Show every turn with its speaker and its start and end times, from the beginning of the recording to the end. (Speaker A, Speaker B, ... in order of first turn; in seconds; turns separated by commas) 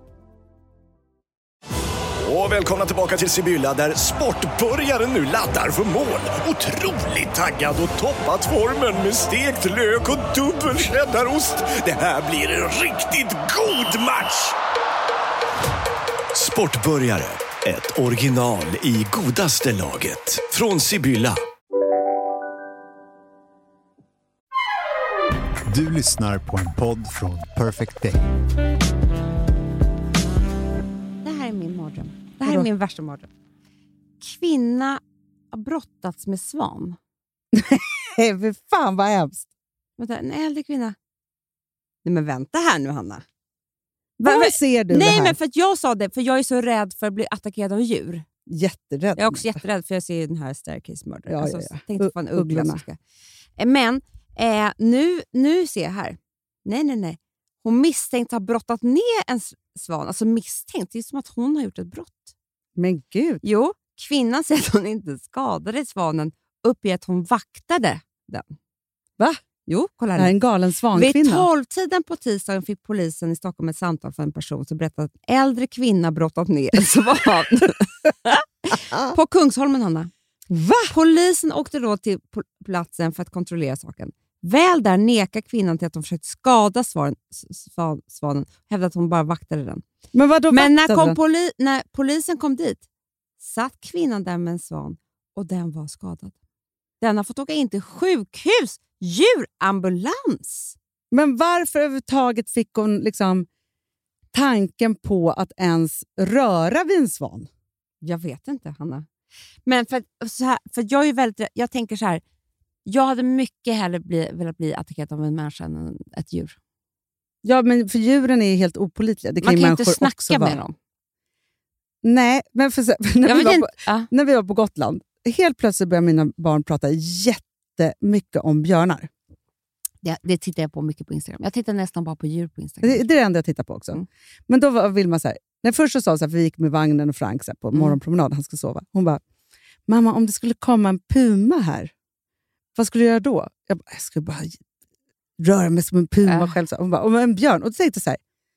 Speaker A: 2.2-14.5, Speaker A: 16.3-21.4, Speaker B: 25.7-28.2, Speaker C: 31.2-33.3, Speaker D: 32.4-32.7, Speaker C: 34.2-35.0, Speaker C: 35.5-37.0, Speaker D: 37.5-39.5, Speaker C: 40.0-41.0, Speaker C: 42.0-43.2, Speaker D: 44.2-45.4, Speaker C: 44.2-48.2, Speaker D: 48.5-49.6, Speaker C: 49.2-53.0, Speaker D: 51.3-52.8, Speaker C: 53.6-62.2, Speaker D: 62.8-63.4, Speaker C: 63.4-68.5, Speaker C: 69.7-70.3, Speaker D: 70.1-71.5, Speaker C: 70.9-80.1, Speaker D: 80.5-80.9, Speaker C: 80.9-89.8, Speaker D: 90.1-91.2, Speaker C: 90.5-92.8, Speaker C: 93.4-96.3, Speaker C: 97.0-100.7, Speaker D: 101.1-103.5, Speaker D: 104.3-107.5, Speaker C: 108.0-109.1, Speaker C: 109.7-112.2, Speaker C: 112.8-116.5, Speaker D: 117.4-120.6, Speaker C: 119.4-120.7, Speaker D: 122.0-129.1, Speaker C: 123.2-124.1, Speaker C: 130.0-133.1, Speaker D: 132.8-139.2, Speaker D: 139.9-141.9, Speaker D: 142.7-144.6, Speaker D: 145.4-148.2, Speaker C: 146.2-146.5